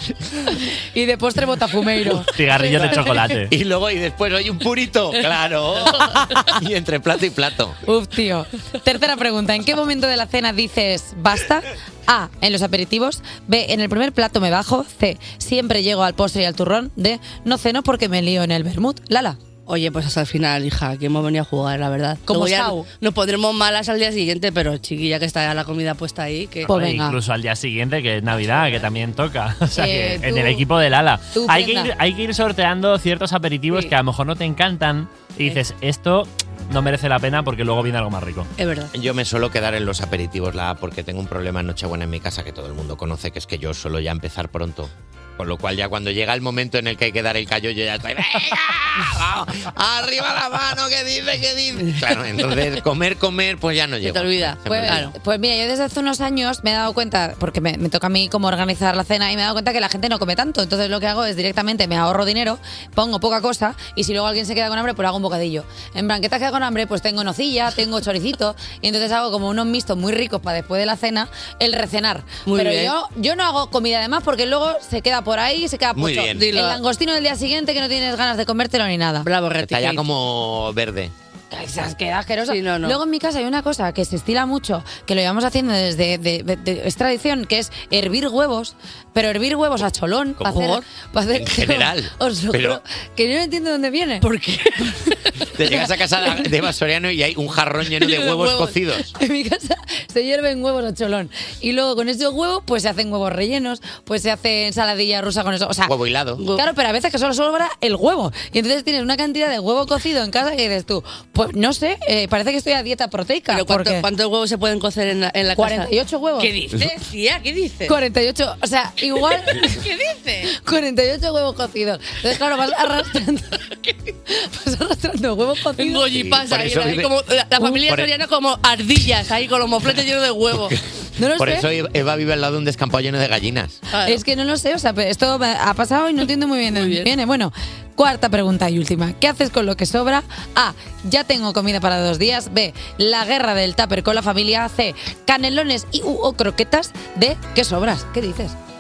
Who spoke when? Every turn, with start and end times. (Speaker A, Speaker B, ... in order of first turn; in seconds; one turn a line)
Speaker A: 0.6-3.3
Speaker B: 2.2-3.5
Speaker C: 3.5-7.8
Speaker A: 7.8-19.4
Speaker D: 19.7-26.7
Speaker A: 22.3-22.8
Speaker A: 26.7-27.2
Speaker B: 26.7-38.5
Speaker A: 29.8-30.6
Speaker A: 31.3-31.9
Speaker D: 38.6-38.9
Speaker C: 38.9-55.1
Speaker D: 51.8-52.5
Speaker D: 54.0-55.1
Speaker A: 54.6-79.3
Speaker D: 72.4-72.9
Speaker C: 76.0-76.5
Speaker D: 76.3-76.8
Speaker D: 79.2-80.0
Speaker C: 79.6-81.1
Speaker A: 81.5-94.2
Speaker D: 82.5-83.0
Speaker C: 90.4-90.7
Speaker D: 90.5-90.8
Speaker C: 91.3-92.8
Speaker D: 94.2-95.2
Speaker C: 95.5-99.1
Speaker D: 98.0-98.8
Speaker A: 99.2-105.9
Speaker C: 105.9-106.4
Speaker D: 106.4-106.6
Speaker A: 106.5-114.0
Speaker D: 113.5-117.9
Speaker A: 115.5-116.8
Speaker A: 117.9-119.8
Speaker D: 119.4-120.5
Speaker A: 120.5-123.7
Speaker A: 124.3-126.1
Speaker D: 125.8-130.7
Speaker C: 126.1-127.1
Speaker A: 127.6-127.8
Speaker A: 131.2-131.7
Speaker C: 131.4-133.8
Speaker D: 133.9-134.2
Speaker A: 134.0-148.6
Speaker D: 136.7-137.1